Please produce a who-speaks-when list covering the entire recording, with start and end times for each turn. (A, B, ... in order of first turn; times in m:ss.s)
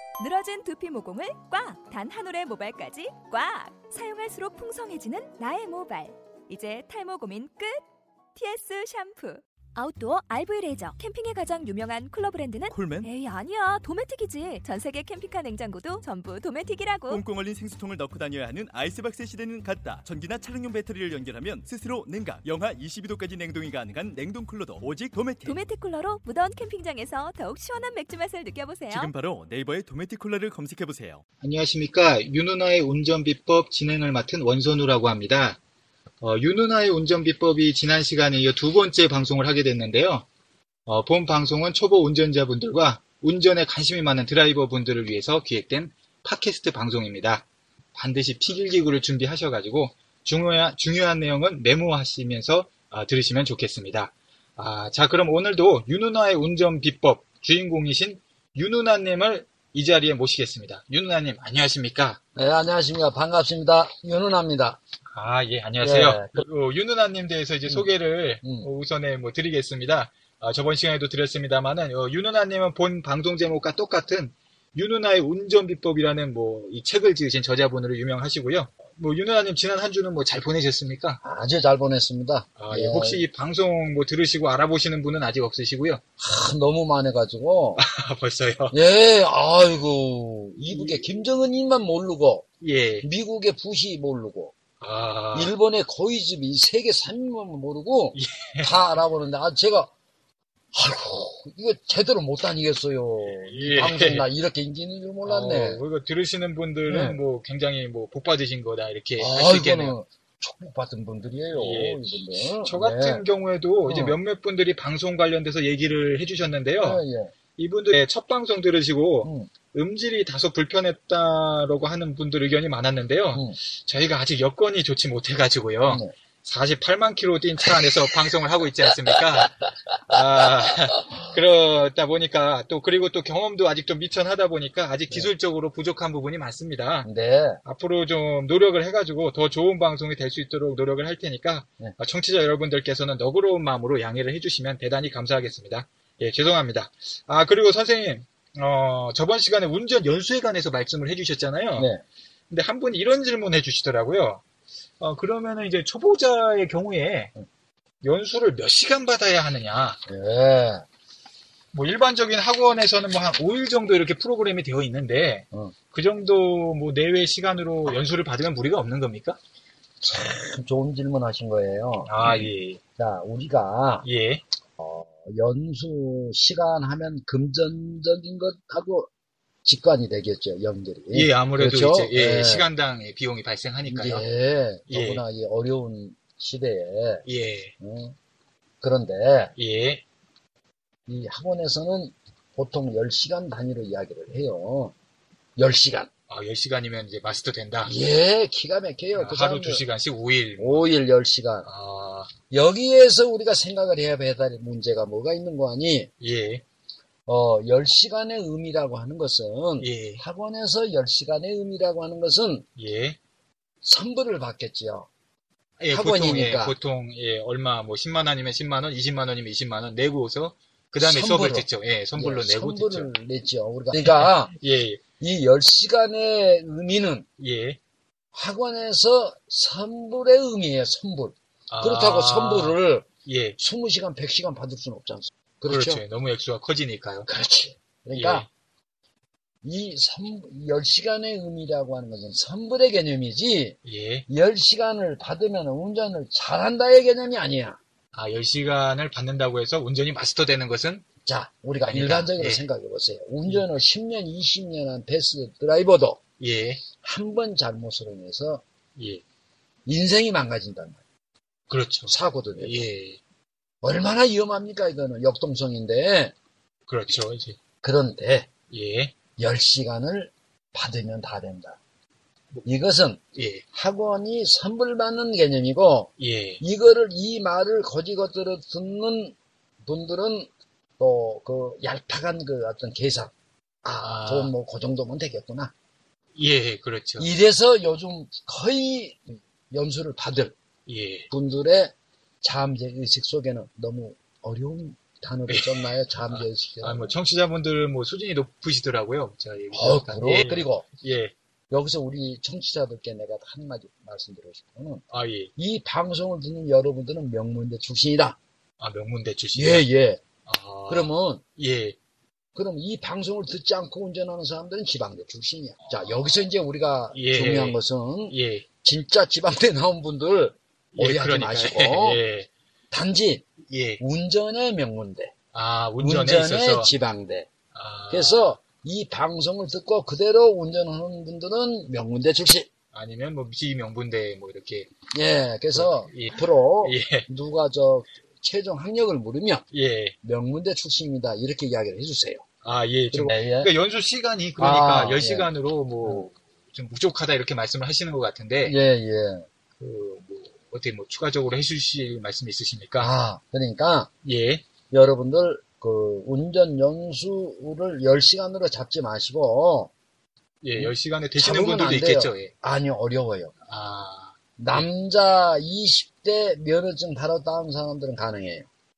0:00.2-0:07.8 A
0:08.3-0:17.2 A
0:12.7-0:13.1 B
0:17.1-0:25.6 B
0:25.4-0:29.1 A
0:28.9-0:31.2 B
0:31.4-0:35.6 C
0:36.2-0:40.2 C
0:40.8-1:02.2 C
1:02.3-1:04.8 D
1:05.1-1:21.2 C
1:05.8-1:06.4 D
1:21.2-1:23.2 D
1:22.6-1:26.0 C
1:26.2-1:27.8 D
1:27.8-1:28.8 C
1:28.7-1:32.4 D
1:30.7-1:31.0 C
1:32.6-1:33.1 C
1:33.0-1:34.5 D
1:34.8-1:35.5 C
1:35.3-1:39.9 D
1:38.1-1:38.7 C
1:40.7-1:45.8 D
1:43.2-1:44.3 C
1:45.2-1:49.9 C
1:46.9-1:47.2 D
1:49.2-1:53.2 D
1:51.5-1:52.0 C
1:52.6-1:57.0 C
1:53.9-1:54.2 D
1:56.8-1:57.3 D
1:57.6-2:17.1 C
1:59.2-1:59.5 D
2:05.9-2:06.1 D
2:17.0-2:17.6 D
2:17.6-2:31.9 C
2:31.8-2:32.0 D
2:32.5-2:34.4 C
2:35.0-2:37.3 C
2:38.0-2:40.0 C
2:40.1-2:40.8 D
2:41.7-2:49.4 C
2:50.0-2:54.0 D
2:52.0-2:52.8 C
2:54.0-2:54.4 C
2:54.8-2:59.1 D
2:59.6-3:02.7 D
3:01.1-3:04.2 C
3:03.8-3:07.2 D
3:04.9-3:05.2 C
3:07.2-3:07.7 C
3:07.8-3:08.2 D
3:08.8-3:09.5 D
3:09.6-3:10.0 C
3:11.1-3:14.9 D
3:15.6-3:16.1 D
3:16.3-3:17.9 C
3:17.8-3:19.8 D
3:19.1-3:20.9 C
3:20.6-3:21.7 D
3:21.6-3:22.3 C
3:22.5-3:26.1 D
3:26.2-3:26.6 C
3:27.3-3:32.6 D
3:29.8-3:30.2 C
3:32.8-3:33.2 C
3:33.8-3:35.1 D
3:35.8-3:43.1 C
3:35.9-3:36.8 D
3:41.0-3:44.5 D
3:44.0-3:45.0 C
3:45.2-3:47.2 D
3:47.4-3:47.8 C
3:48.3-3:53.0 D
3:51.7-3:53.6 C
3:53.6-3:56.0 D
3:55.7-3:57.3 C
3:57.3-3:58.5 D
3:58.1-3:58.5 C
3:59.6-4:03.8 D
4:03.8-4:04.3 C
4:04.3-4:07.8 D
4:08.1-4:11.0 C
4:11.2-4:16.2 D
4:11.9-4:12.6 C
4:16.4-4:16.8 C
4:17.0-4:18.6 D
4:19.0-4:19.2 C
4:19.8-4:21.0 D
4:21.7-4:23.2 C
4:22.1-4:22.8 D
4:23.8-4:26.3 D
4:26.9-4:27.6 C
4:27.8-4:28.5 D
4:28.7-4:29.1 C
4:29.4-4:31.8 D
4:32.6-4:33.2 D
4:33.3-4:33.6 C
4:33.7-4:45.7 D
4:36.2-4:36.6 C
4:44.0-4:44.5 C
4:46.3-4:47.3 C
4:47.2-4:50.5 D
4:50.8-4:51.3 C
4:51.3-4:57.1 D
4:55.5-5:01.3 C
4:59.7-5:00.8 D
5:01.7-5:05.0 D
5:05.1-5:05.5 C
5:05.6-5:08.4 D
5:08.8-5:09.9 C
5:09.5-5:10.2 D
5:10.4-5:12.0 C
5:10.9-5:11.4 D
5:12.5-5:22.2 D
5:15.8-5:16.4 C
5:17.1-5:18.6 C
5:20.9-5:22.5 C
5:22.9-5:23.5 D
5:23.6-5:24.0 C
5:24.0-5:25.3 D
5:25.5-5:26.9 C
5:26.0-5:27.5 D
5:27.7-5:28.5 C
5:28.1-5:32.7 D
5:32.9-5:34.9 C
5:35.1-5:39.6 D
5:35.7-5:37.3 C
5:39.7-5:40.2 C
5:40.2-5:42.4 D
5:42.6-5:48.8 C
5:43.1-5:43.7 D
5:44.6-5:45.5 D
5:48.6-5:49.5 D
5:49.8-5:53.1 C
5:53.0-5:54.1 D
5:54.2-5:54.6 C
5:54.9-5:59.9 D
6:00.6-6:02.5 C
6:00.8-6:03.5 D
6:03.7-6:04.9 C
6:04.6-6:08.7 D